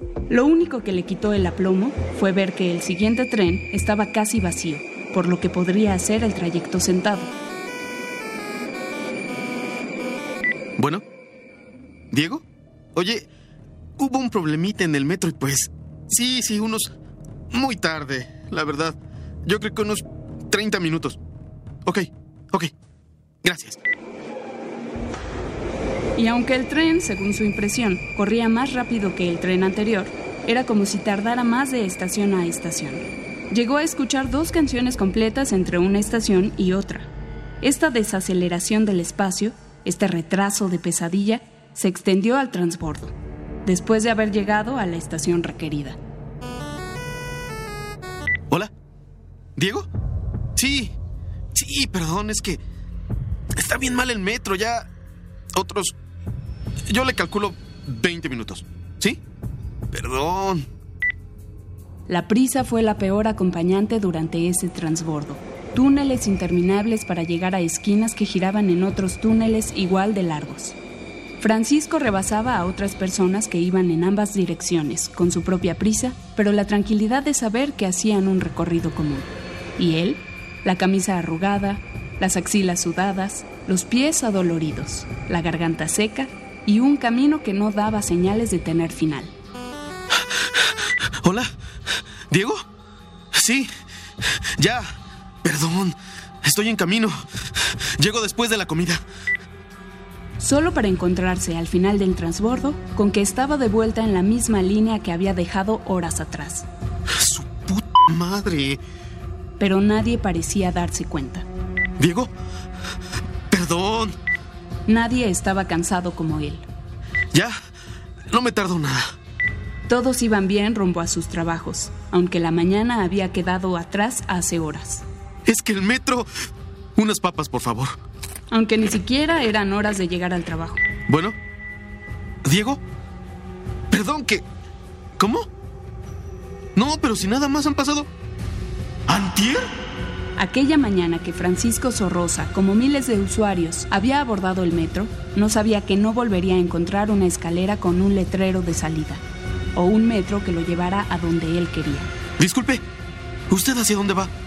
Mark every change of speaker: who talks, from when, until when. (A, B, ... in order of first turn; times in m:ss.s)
0:00.3-0:07.3 A
0:10.8-0:11.0 B
0:12.1-0:12.4 B
0:13.0-0:13.3 B
0:14.0-0:16.9 B
0:17.5-0:21.2 B
0:21.9-0:22.7 B
0:23.4-0:23.8 B
0:26.2-0:37.1 A
0:37.6-0:43.1 A
0:43.6-0:46.0 A
0:49.6-0:49.9 B
0:50.6-0:50.9 B
0:51.5-0:52.6 B
0:53.6-0:54.9 B
0:55.6-0:55.9 B
0:56.9-0:59.2 B
0:59.9-1:00.6 B
1:02.1-1:10.8 A
1:11.4-1:29.3 A
1:31.2-1:31.5 B
1:32.3-1:32.6 B
1:33.3-1:33.7 B
1:34.6-1:34.9 B
1:35.4-1:37.2 B
1:38.0-1:39.0 B
1:40.4-1:46.7 A
1:47.2-1:48.8 B
1:49.6-1:51.4 A
1:52.0-1:52.3 B
1:53.5-1:54.2 B
1:54.9-1:56.7 A
1:58.3-1:59.1 B
1:59.9-2:05.0 A
2:05.5-2:06.3 B
2:07.0-2:08.0 B
2:08.5-2:10.8 A
2:11.1-2:11.4 B
2:12.4-2:12.8 B
2:13.9-2:14.4 B
2:15.2-2:15.5 B
2:16.8-2:18.1 B
2:19.1-2:19.6 B
2:20.4-2:29.2 A
2:29.8-2:32.1 A
2:32.4-2:32.8 B
2:33.5-2:34.3 B